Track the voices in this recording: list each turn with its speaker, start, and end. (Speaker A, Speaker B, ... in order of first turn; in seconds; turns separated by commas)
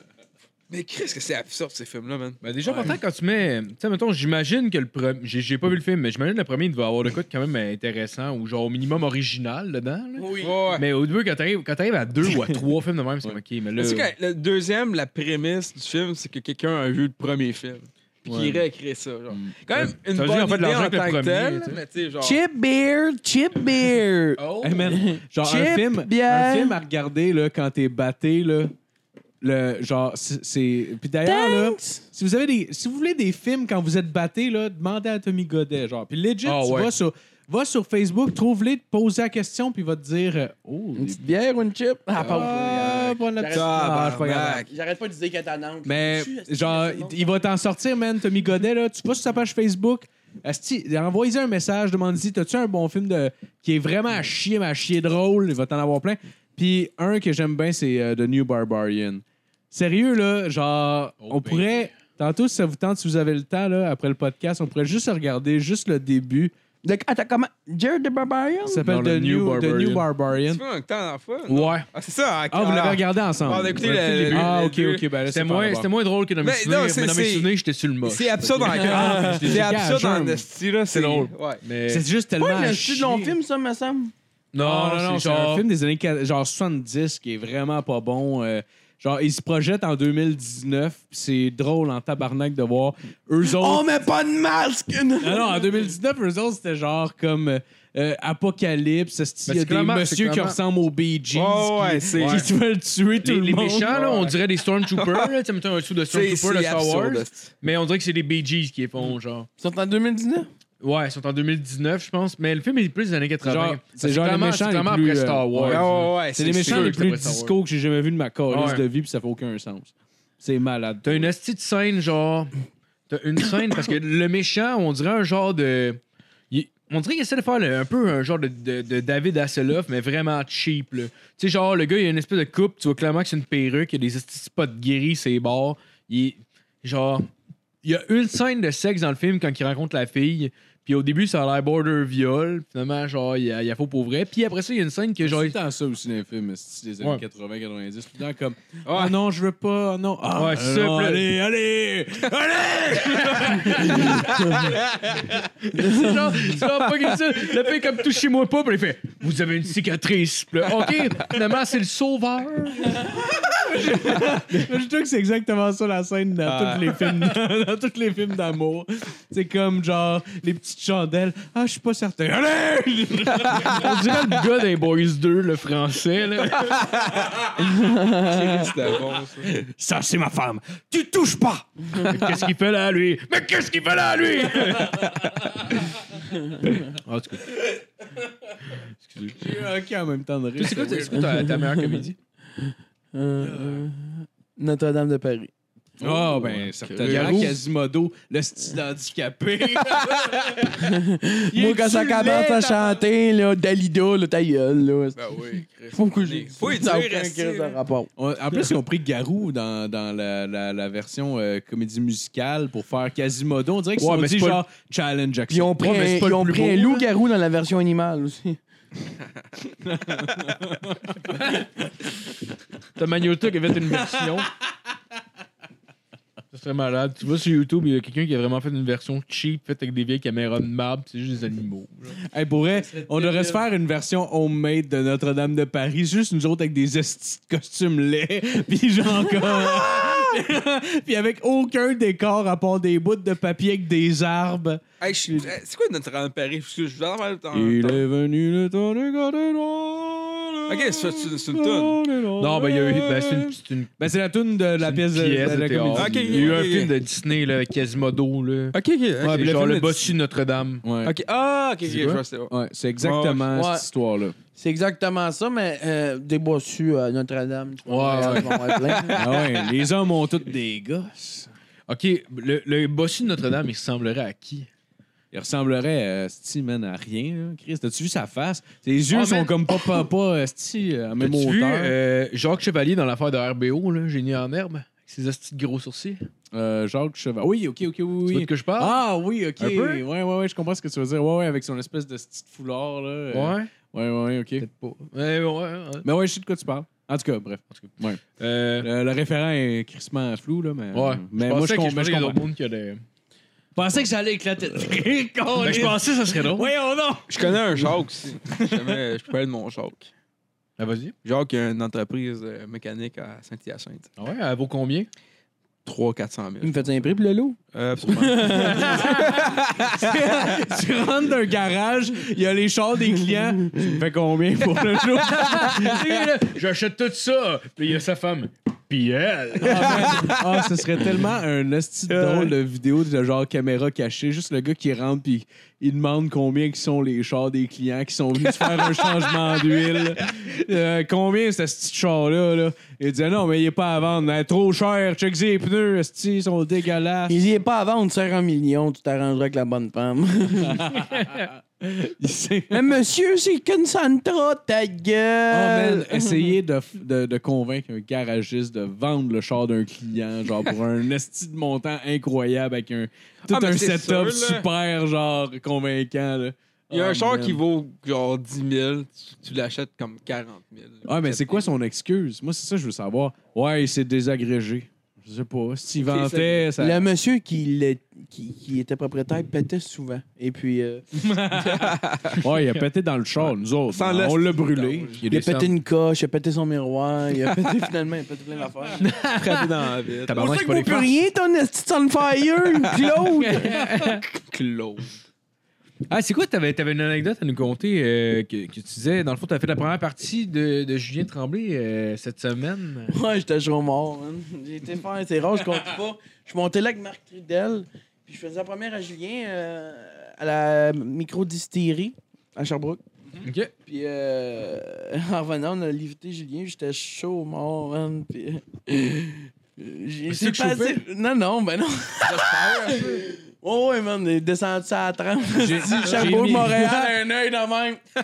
Speaker A: 0.7-2.9, Speaker B: 2.4-14.1, Speaker C: 10.2-10.6, Speaker A: 10.4-10.9, Speaker A: 13.8-22.4, Speaker B: 18.3-18.6, Speaker B: 19.4-21.8, Speaker C: 22.2-26.8, Speaker B: 24.4-25.0, Speaker D: 24.6-28.7, Speaker D: 29.4-41.2, Speaker C: 31.2-32.0, Speaker B: 36.5-36.9, Speaker C: 41.0-47.5, Speaker A: 42.2-44.7, Speaker D: 42.2-44.6, Speaker D: 45.9-66.5, Speaker B: 61.2-61.8, Speaker C: 66.8-68.8, Speaker D: 68.7-70.6, Speaker B: 68.8-70.1, Speaker A: 70.5-75.1, Speaker B: 71.5-71.9, Speaker D: 72.5-75.9, Speaker B: 73.8-74.5, Speaker B: 75.2-79.7, Speaker A: 76.4-77.5, Speaker A: 78.0-81.6, Speaker D: 78.6-80.5, Speaker C: 78.7-79.5, Speaker B: 80.9-82.1, Speaker D: 81.9-83.4, Speaker C: 82.4-84.1, Speaker B: 84.5-85.7, Speaker D: 84.6-93.9, Speaker C: 93.4-95.7, Speaker D: 95.2-104.0, Speaker B: 99.5-100.6, Speaker A: 101.3-102.5, Speaker B: 102.2-102.5, Speaker B: 103.2-109.5, Speaker A: 103.9-105.3, Speaker A: 106.1-107.5, Speaker C: 109.6-110.5, Speaker B: 110.8-117.6, Speaker D: 113.4-121.3, Speaker A: 115.7-117.1, Speaker B: 118.5-118.8, Speaker B: 121.0-122.5, Speaker B: 123.1-137.3, Speaker B: 137.8-145.6, Speaker D: 145.2-155.2, Speaker A: 148.8-149.2, Speaker B: 150.3-151.3, Speaker B: 152.9-154.6, Speaker C: 154.3-154.7, Speaker B: 155.6-163.1, Speaker C: 155.7-156.2, Speaker D: 163.3-173.8, Speaker A: 166.4-167.3, Speaker A: 173.5-173.8, Speaker B: 173.6-176.8, Speaker A: 176.6-177.5, Speaker C: 177.6-178.7, Speaker A: 178.2-179.7, Speaker D: 179.7-182.0, Speaker B: 182.0-185.6, Speaker B: 186.6-187.8, Speaker B: 188.8-189.5, Speaker D: 189.2-191.4, Speaker B: 190.6-192.2, Speaker C: 191.3-191.9, Speaker C: 192.6-195.5, Speaker D: 196.0-200.8, Speaker A: 196.0-197.6, Speaker B: 196.6-197.6, Speaker A: 199.9-200.5, Speaker C: 200.7-208.1, Speaker D: 201.5-203.0, Speaker A: 205.2-207.8, Speaker D: 208.2-215.8, Speaker B: 214.0-214.6, Speaker C: 215.5-218.6, Speaker B: 215.5-217.1, Speaker D: 219.8-221.0, Speaker B: 223.0-224.5, Speaker D: 224.1-224.4, Speaker B: 226.5-232.2, Speaker D: 232.3-245.5, Speaker A: 232.9-233.5, Speaker A: 245.0-248.0, Speaker D: 247.5-252.8, Speaker A: 250.7-253.5, Speaker B: 252.4-253.9, Speaker D: 254.0-256.6, Speaker B: 254.8-260.8, Speaker A: 255.9-256.9, Speaker A: 258.7-260.1, Speaker D: 260.8-261.2, Speaker A: 261.0-263.6, Speaker B: 261.9-262.2, Speaker D: 262.5-264.4, Speaker C: 263.5-263.9, Speaker C: 264.6-269.2, Speaker B: 267.9-269.0, Speaker A: 269.1-269.4, Speaker D: 269.2-271.5, Speaker B: 271.9-274.7, Speaker D: 275.3-281.9, Speaker B: 279.1-279.6, Speaker B: 281.2-286.2, Speaker D: 286.5-294.7, Speaker B: 288.2-289.0, Speaker B: 289.6-290.0, Speaker B: 293.3-293.7, Speaker B: 294.6-296.1, Speaker D: 296.0-298.2, Speaker B: 297.7-298.9, Speaker D: 298.8-302.4, Speaker B: 300.9-303.0, Speaker D: 303.8-307.8, Speaker B: 305.6-306.7, Speaker A: 307.3-310.1, Speaker D: 308.5-309.0, Speaker B: 310.8-311.1, Speaker A: 311.2-314.1, Speaker B: 314.2-315.1, Speaker A: 315.9-316.8, Speaker C: 316.6-319.0, Speaker A: 317.7-320.2, Speaker B: 318.6-319.3, Speaker D: 319.1-319.4, Speaker D: 320.0-326.1, Speaker B: 325.3-330.3, Speaker D: 329.6-347.5, Speaker A: 330.1-330.4, Speaker A: 332.1-332.5, Speaker A: 338.7-340.0, Speaker C: 347.3-350.9, Speaker D: 350.7-352.9, Speaker B: 351.1-351.5, Speaker C: 352.7-356.6, Speaker D: 355.5-367.6, Speaker A: 363.5-364.7, Speaker A: 366.9-371.7, Speaker D: 371.1-377.1, Speaker A: 376.0-376.7, Speaker C: 376.8-381.1, Speaker D: 381.1-385.2, Speaker A: 381.6-382.5, Speaker A: 383.9-385.2, Speaker B: 385.2-385.7, Speaker C: 385.3-389.1, Speaker B: 389.0-391.1, Speaker A: 389.3-390.4, Speaker C: 390.3-393.7, Speaker B: 393.5-394.2, Speaker D: 393.5-394.0, Speaker A: 394.4-395.2, Speaker B: 396.1-403.2, Speaker C: 403.1-413.0, Speaker B: 413.4-413.7, Speaker C: 413.9-428.0, Speaker B: 420.3-421.0, Speaker A: 422.2-423.3, Speaker D: 425.6-427.1